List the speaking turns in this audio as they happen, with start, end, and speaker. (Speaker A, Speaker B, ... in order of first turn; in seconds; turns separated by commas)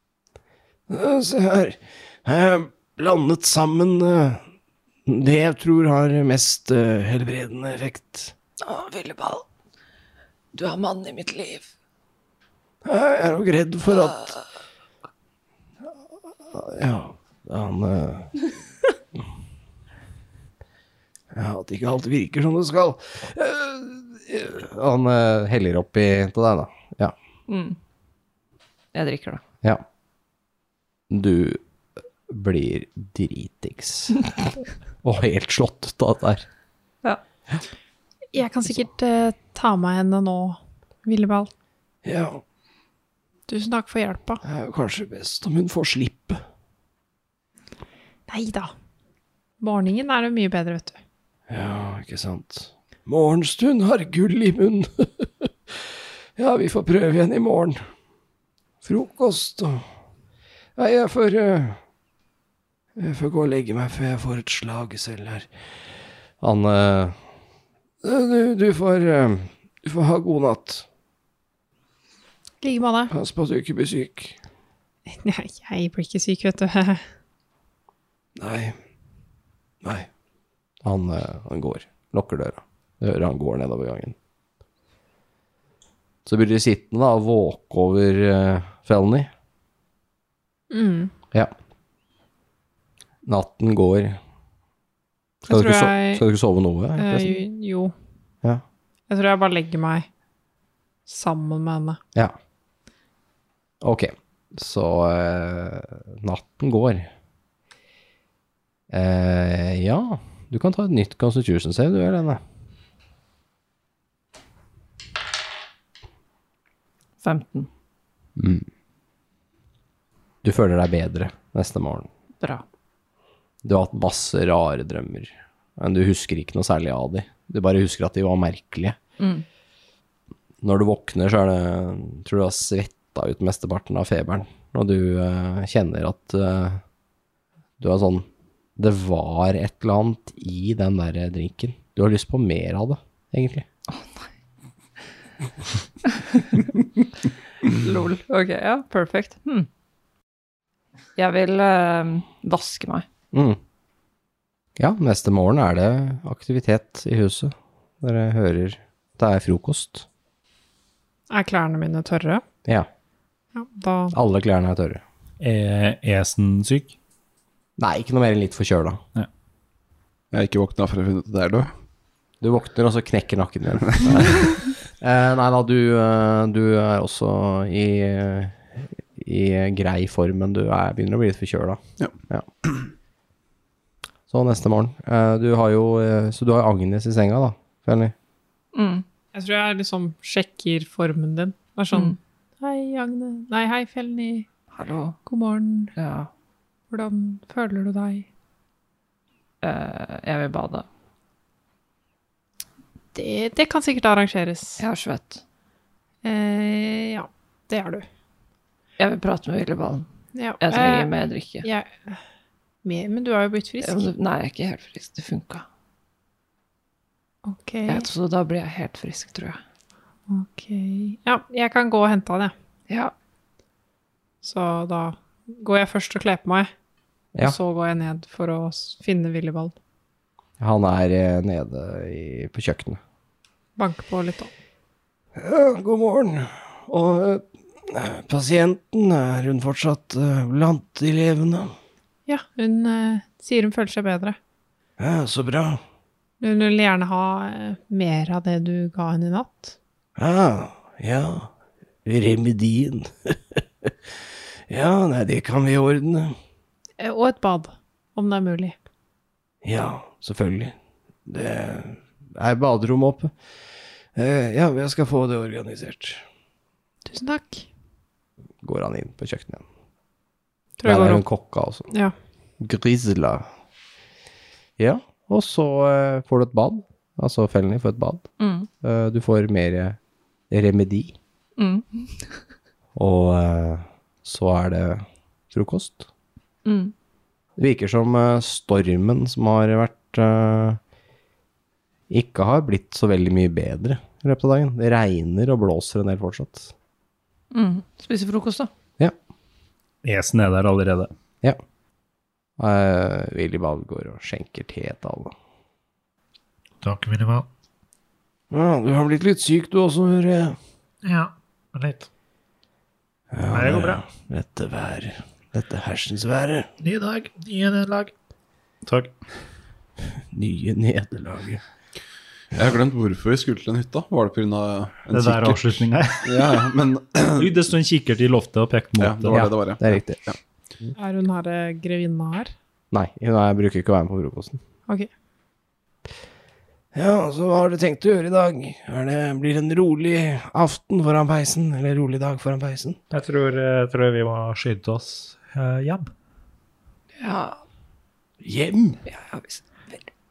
Speaker A: 0.9-4.4, Speaker A: 5.1-8.3, Speaker B: 8.6-9.4, Speaker B: 10.5-11.7, Speaker A: 12.8-14.4, Speaker A: 16.5-18.3, Speaker A: 21.3-24.7, Speaker C: 24.7-27.1, Speaker B: 27.5-27.8, Speaker B: 28.9-29.4, Speaker C: 31.1-31.6, Speaker C: 32.3-34.2, Speaker C: 35.0-36.5, Speaker D: 38.3-41.5, Speaker A: 42.0-42.4, Speaker D: 43.5-44.4, Speaker A: 44.4-46.4, Speaker D: 48.3-48.7, Speaker D: 49.6-51.0, Speaker A: 51.5-57.8, Speaker A: 58.8-59.8, Speaker A: 60.8-61.8, Speaker A: 63.0-65.5, Speaker C: 66.4-67.2, Speaker A: 68.0-70.9, Speaker D: 72.6-73.1, Speaker A: 73.1-74.4, Speaker D: 75.1-77.0, Speaker A: 78.4-78.8, Speaker A: 79.8-80.1, Speaker C: 80.8-84.2, Speaker C: 86.2-89.3, Speaker D: 90.7-91.1, Speaker C: 93.2-94.2, Speaker C: 95.5-97.4, Speaker D: 95.5-96.2, Speaker D: 97.0-97.9, Speaker D: 99.1-100.1, Speaker D: 101.1-102.0, Speaker C: 103.8-107.1, Speaker C: 108.9-112.4, Speaker B: 117.2-117.7, Speaker C: 118.4-118.7, Speaker C: 120.4-122.1, Speaker C: 123.6-129.0, Speaker B: 129.2-129.4, Speaker C: 130.6-136.8, Speaker C: 137.8-143.7, Speaker B: 143.9-144.3, Speaker B: 146.1-146.6, Speaker B: 147.6-149.7, Speaker B: 151.2-153.1, Speaker C: 153.3-153.6, Speaker C: 154.8-160.1, Speaker D: 161.3-162.4, Speaker D: 163.5-164.2, Speaker C: 164.1-165.0, Speaker E: 165.4-166.9, Speaker C: 167.8-169.0, Speaker F: 170.3-171.7, Speaker C: 172.4-182.5, Speaker C: 184.3-188.1, Speaker B: 188.7-189.1, Speaker D: 189.3-194.5, Speaker B: 194.7-195.2, Speaker D: 195.3-195.9, Speaker B: 196.0-196.3, Speaker D: 196.9-198.3, Speaker B: 199.6-200.9, Speaker D: 203.2-204.8, Speaker B: 204.8-205.4, Speaker D: 206.2-208.1, Speaker B: 209.0-210.1, Speaker D: 210.3-211.1, Speaker B: 210.6-211.7, Speaker D: 211.6-212.2, Speaker D: 212.8-214.1, Speaker B: 213.8-215.7, Speaker D: 217.4-218.1, Speaker B: 217.9-219.6, Speaker D: 220.3-222.5, Speaker D: 224.4-226.7, Speaker D: 227.4-229.8, Speaker C: 230.6-233.0, Speaker D: 233.8-234.5, Speaker A: 235.3-241.7, Speaker D: 242.3-244.4, Speaker A: 245.0-245.8, Speaker D: 246.4-249.8, Speaker A: 250.2-251.5, Speaker A: 252.1-253.9, Speaker A: 254.7-256.4, Speaker D: 257.0-258.8, Speaker A: 259.6-260.7, Speaker A: 261.3-262.0, Speaker C: 262.4-263.3, Speaker A: 264.1-266.2, Speaker D: 267.1-267.7, Speaker C: 268.6-269.6, Speaker D: 270.8-271.2, Speaker C: 270.9-271.9, Speaker C: 272.6-273.5, Speaker C: 274.8-278.3, Speaker B: 278.4-278.7, Speaker C: 278.8-280.0, Speaker C: 280.5-281.2, Speaker B: 281.6-282.4, Speaker C: 283.0-286.1, Speaker B: 286.6-286.9, Speaker C: 287.6-290.8, Speaker C: 292.1-296.7, Speaker B: 297.5-298.7, Speaker E: 300.0-301.1, Speaker C: 302.6-305.3, Speaker G: 306.8-307.5, Speaker A: 308.5-310.6, Speaker G: 311.0-312.1, Speaker A: 313.3-316.7, Speaker G: 313.5-314.0, Speaker G: 316.8-318.1, Speaker E: 318.9-319.1, Speaker A: 320.3-321.6, Speaker F: 322.6-327.6, Speaker E: 325.1-326.2, Speaker E: 327.4-329.5, Speaker F: 329.0-330.4, Speaker C: 329.3-330.2, Speaker D: 331.0-332.5, Speaker C: 332.9-334.6, Speaker A: 336.9-343.0, Speaker G: 343.1-346.1, Speaker B: 347.2-347.6, Speaker A: 348.4-349.0, Speaker B: 349.1-350.1